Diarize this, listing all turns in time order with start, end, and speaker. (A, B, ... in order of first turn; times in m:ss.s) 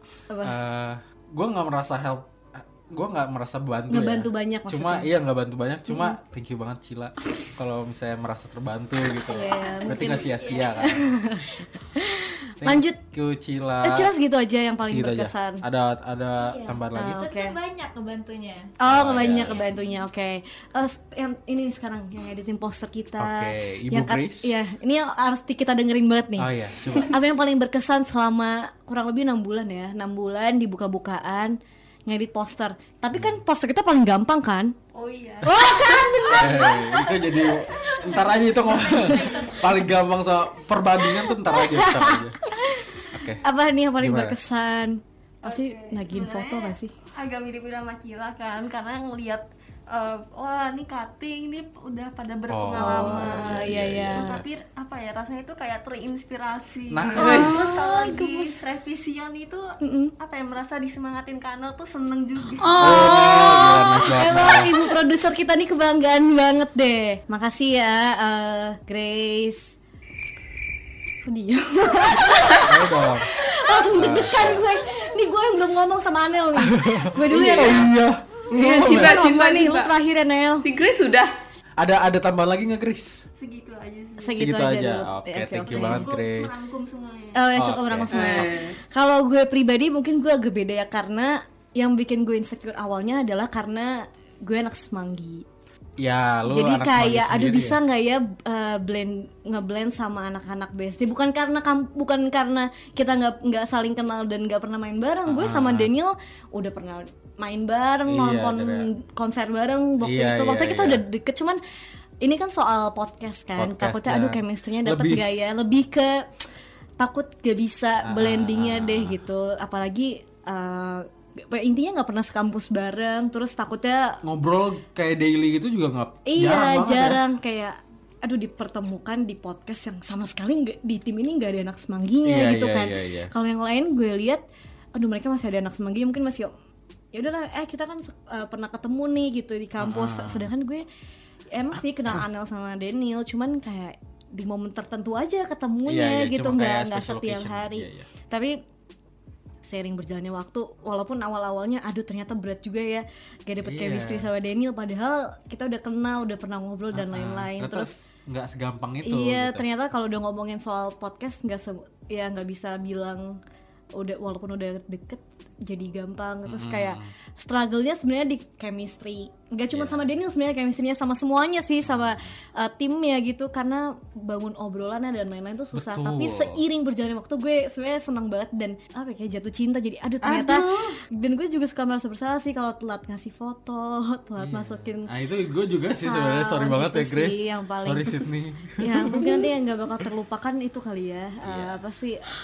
0:00.3-0:00.6 A
0:00.4-0:11.1 B
0:03.9-0:05.1 A
0:05.9-0:06.2 A
0:09.2-0:13.0 A
0:09.5-0:11.0 C
0:12.6-0:14.1 B
0:13.8-0:15.6 A
0:14.9-0:17.2 B
0:16.4-0:18.7 C
0:16.9-0:17.6 A
0:18.8-0:34.7 A
0:18.8-0:19.6 B
0:19.4-0:20.0 C
0:23.2-0:24.6 B
0:26.4-0:27.2 B
0:33.1-0:33.4 B
0:34.9-0:36.7 D
0:35.4-0:37.0 A
0:36.3-0:42.4 B
0:37.8-0:39.8 D
0:39.1-0:39.4 A
0:41.2-0:46.9 A
0:43.1-0:43.4 B
0:44.0-0:44.4 B
0:45.4-1:02.7 D
0:52.5-0:54.4 B
0:52.8-0:54.4 A
0:56.9-0:57.6 B
0:57.2-0:58.6 A
0:57.2-0:57.9 E
0:59.8-1:00.1 A
1:02.6-1:03.5 E
1:02.8-1:09.7 A
1:02.8-1:04.7 B
1:11.2-1:17.9 A
1:12.6-1:13.3 B
1:13.9-1:14.6 B
1:16.6-1:19.2 B
1:17.3-1:17.9 E
1:18.5-1:19.9 E
1:18.6-1:20.7 A
1:20.6-1:21.3 E
1:21.8-1:23.2 B
1:23.4-1:24.4 D
1:24.2-1:26.1 A
1:24.4-1:26.6 B
1:25.7-1:27.5 D
1:27.3-1:35.4 A
1:27.5-1:28.5 B
1:28.1-1:28.8 E
1:36.0-1:37.8 B
1:36.4-1:51.6 A
1:45.3-1:45.9 B
1:48.1-1:48.9 B
1:50.0-1:51.0 B
1:52.2-1:56.3 A
1:53.6-1:55.2 B
1:57.0-2:04.2 A
1:58.0-1:59.2 B
2:04.2-2:07.2 B
2:06.2-2:14.4 A
2:12.2-2:13.3 B
2:14.9-2:16.5 A
2:17.1-2:20.8 A
2:19.8-2:20.5 B
2:21.5-2:28.6 A
2:25.8-2:28.1 B
2:29.6-2:37.9 A
2:33.6-2:34.3 B
2:36.9-2:39.6 B
2:39.0-2:43.4 A
2:43.9-3:05.1 A
2:46.4-2:47.1 B
2:49.7-2:50.1 B
2:51.8-2:52.3 B
2:55.7-2:56.6 B
3:00.2-3:00.9 B
3:04.4-3:09.5 B
3:06.0-3:12.3 A
3:11.4-3:11.8 B